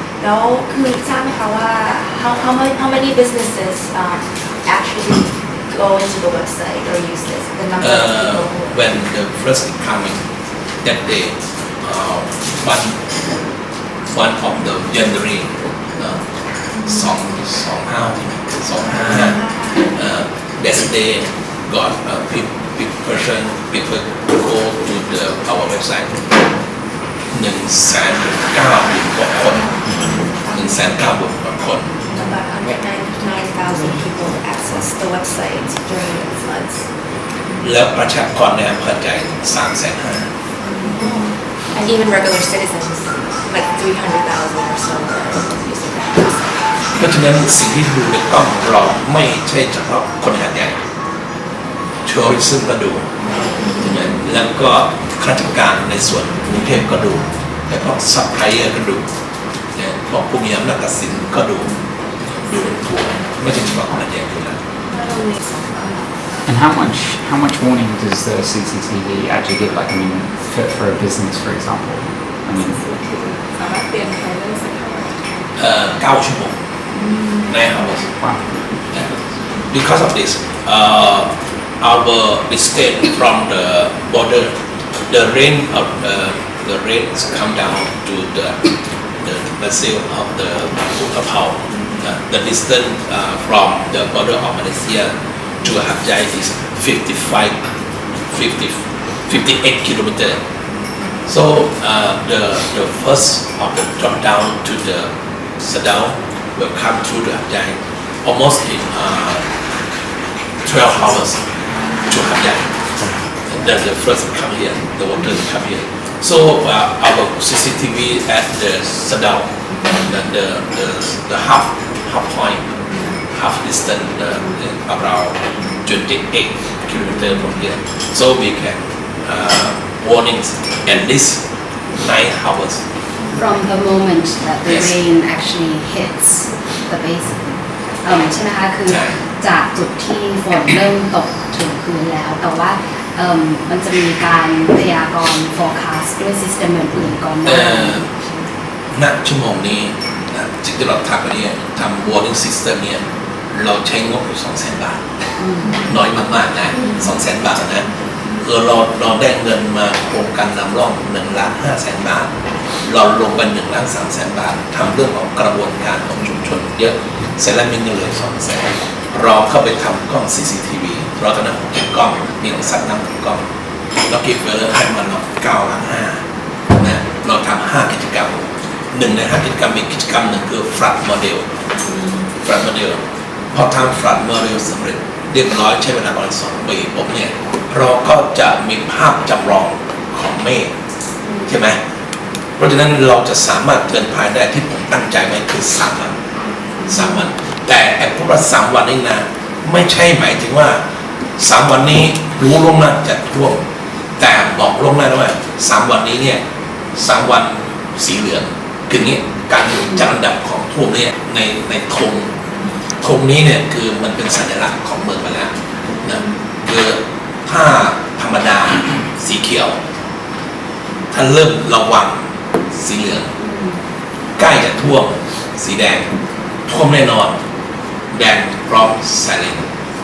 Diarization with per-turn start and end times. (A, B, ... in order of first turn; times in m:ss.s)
0:00.2-0:08.7 A
0:07.8-0:10.2 B
0:10.8-0:13.0 B
0:14.1-0:16.2 B
0:16.8-0:19.4 B
0:19.2-0:19.9 A
0:19.9-0:26.1 B
0:27.3-0:29.6 B
0:29.6-0:30.8 A
0:30.5-0:31.9 B
0:32.1-0:36.8 A
0:37.6-0:40.3 B
0:40.7-0:46.6 A
0:47.0-0:50.8 B
0:52.0-0:53.1 B
0:53.8-0:59.0 B
0:59.7-1:01.7 B
1:02.3-1:04.6 B
1:06.4-1:12.8 C
1:12.8-1:15.4 D
1:15.6-1:16.6 B
1:17.4-1:18.1 B
1:18.1-1:19.1 C
1:19.7-1:24.5 B
1:25.1-1:37.6 B
1:38.3-1:40.4 B
1:41.2-1:49.4 B
1:50.6-1:51.4 B
1:52.1-1:52.7 B
1:53.5-2:02.8 B
2:03.3-2:12.8 B
2:13.3-2:28.3 E
2:14.6-2:14.9 B
2:18.9-2:19.1 B
2:27.4-2:28.0 B
2:28.9-2:35.0 B
2:35.4-2:35.8 E
2:35.8-2:37.9 B
2:38.4-2:42.3 B
2:42.8-2:53.4 B
2:54.0-2:56.2 B
2:56.8-3:01.5 B
3:02.4-3:03.0 B
3:03.5-3:10.7 B
3:11.4-3:11.8 B
3:12.6-3:16.1 B
3:16.8-3:20.8 B
3:21.4-3:23.6 B
3:24.2-3:26.4 B
3:27.0-3:32.3 B
3:33.0-3:35.5 B
3:36.0-3:39.8 B
3:41.1-3:43.3 B
3:44.4-3:46.1 B
3:46.7-3:47.4 B
3:48.1-3:49.7 B